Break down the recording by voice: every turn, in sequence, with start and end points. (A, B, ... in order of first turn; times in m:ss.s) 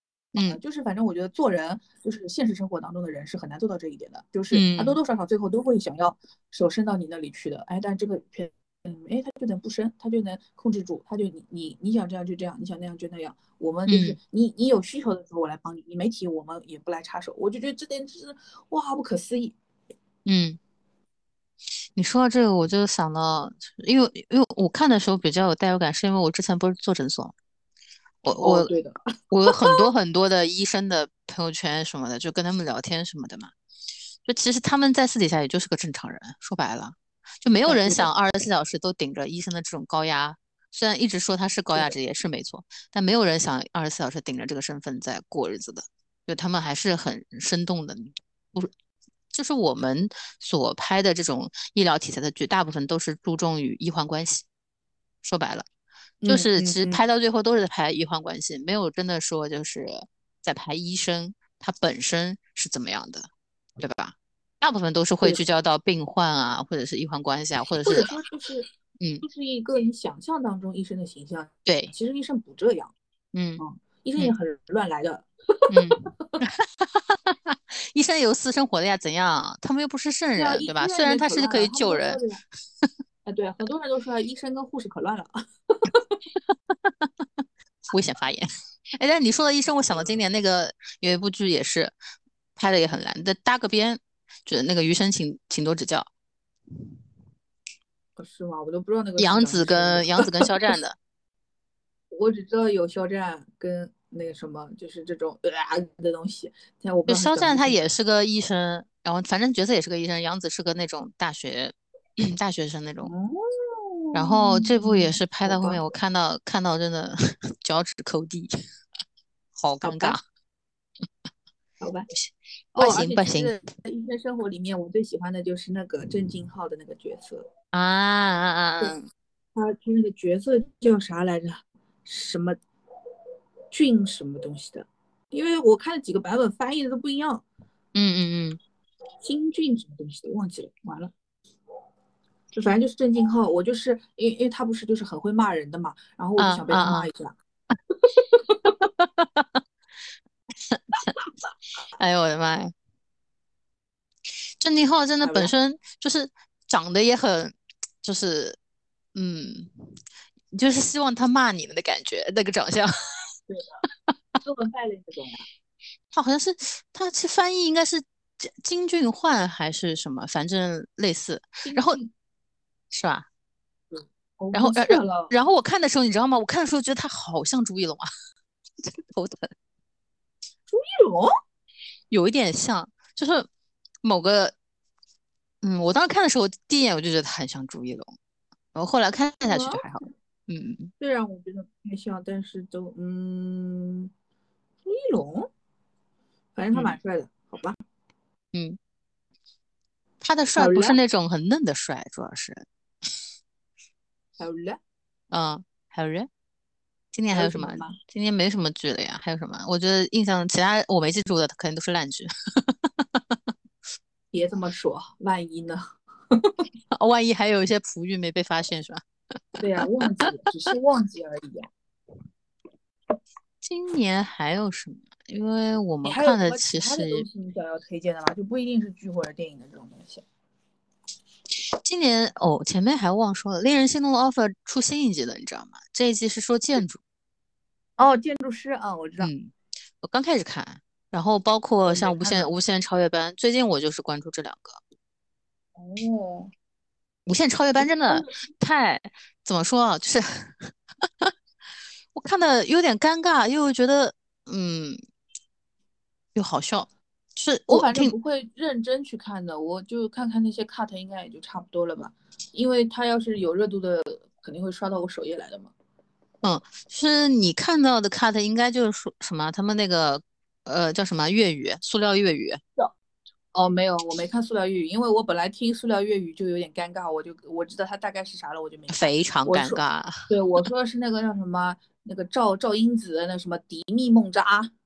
0:00.3-0:00.6 A
0:00.4-0:19.5 B
0:04.5-0:05.0 A
0:13.9-0:14.2 A
0:20.2-0:20.6 A
0:21.9-0:27.3 A
0:28.2-0:28.7 A
0:28.4-0:29.9 B
0:29.3-0:33.5 A
0:34.2-0:48.7 A
0:37.6-0:38.1 B
0:49.3-0:54.4 A
0:55.2-0:55.6 A
0:56.2-0:57.0 B
0:56.2-1:08.1 A
1:07.8-1:08.7 B
1:09.2-1:12.9 B
1:11.6-1:11.9 A
1:13.3-1:13.6 A
1:13.6-1:16.4 B
1:15.7-1:22.2 A
1:20.4-1:22.4 B
1:23.2-1:26.2 B
1:26.5-1:27.2 A
1:27.9-1:31.9 A
1:29.9-1:30.2 B
1:32.6-1:36.1 A
1:38.2-1:40.5 B
1:39.2-1:41.0 A
1:42.1-1:47.8 B
1:47.1-1:53.1 A
1:53.0-1:55.8 B
1:54.1-1:58.6 A
1:59.6-2:00.2 A
1:59.8-2:00.2 B
2:01.8-2:02.1 B
2:02.1-2:03.6 A
2:02.7-2:07.4 B
2:07.7-2:09.0 A
2:09.5-2:12.6 B
2:13.7-2:17.4 B
2:17.9-2:18.6 A
2:19.2-2:21.1 B
2:22.5-2:27.3 B
2:26.4-2:27.1 A
2:28.1-2:28.8 B
2:29.0-2:29.6 A
2:30.7-2:31.1 A
2:32.0-2:32.7 A
2:34.6-2:38.6 A
2:35.2-2:35.5 B
2:39.1-2:39.9 A
2:40.5-2:43.3 A
2:44.4-2:45.4 B
2:46.1-2:52.0 A
2:51.6-2:52.1 B
2:52.9-2:53.2 A
2:54.0-2:55.3 B
2:54.5-2:58.1 A
2:58.8-2:59.5 A
3:00.7-3:01.3 B
3:02.1-3:03.5 A
3:04.0-3:04.5 A
3:05.6-3:08.1 A
3:08.7-3:10.9 A
3:09.4-3:09.8 B
3:11.0-3:14.1 B
3:14.8-3:15.5 B
3:16.5-3:17.8 B
3:20.2-3:22.6 A
3:20.6-3:21.0 B
3:24.4-3:24.8 B
3:25.3-3:26.3 A
3:27.1-3:33.2 A
3:27.3-3:28.0 B
3:34.3-3:36.6 B
3:36.9-3:39.0 A
3:39.6-3:41.7 B
3:43.6-3:47.2 A
3:46.0-3:50.2 B
3:51.8-3:57.0 A
3:58.0-3:59.3 B
3:59.2-4:04.8 A
4:01.8-4:02.5 B
4:05.8-4:06.5 B
4:07.2-4:11.3 A
4:07.8-4:08.3 B
4:12.1-4:15.0 A
4:16.3-4:18.1 A
4:17.7-4:25.7 B
4:26.4-4:32.6 A
4:33.5-4:44.7 B
4:38.9-4:40.6 A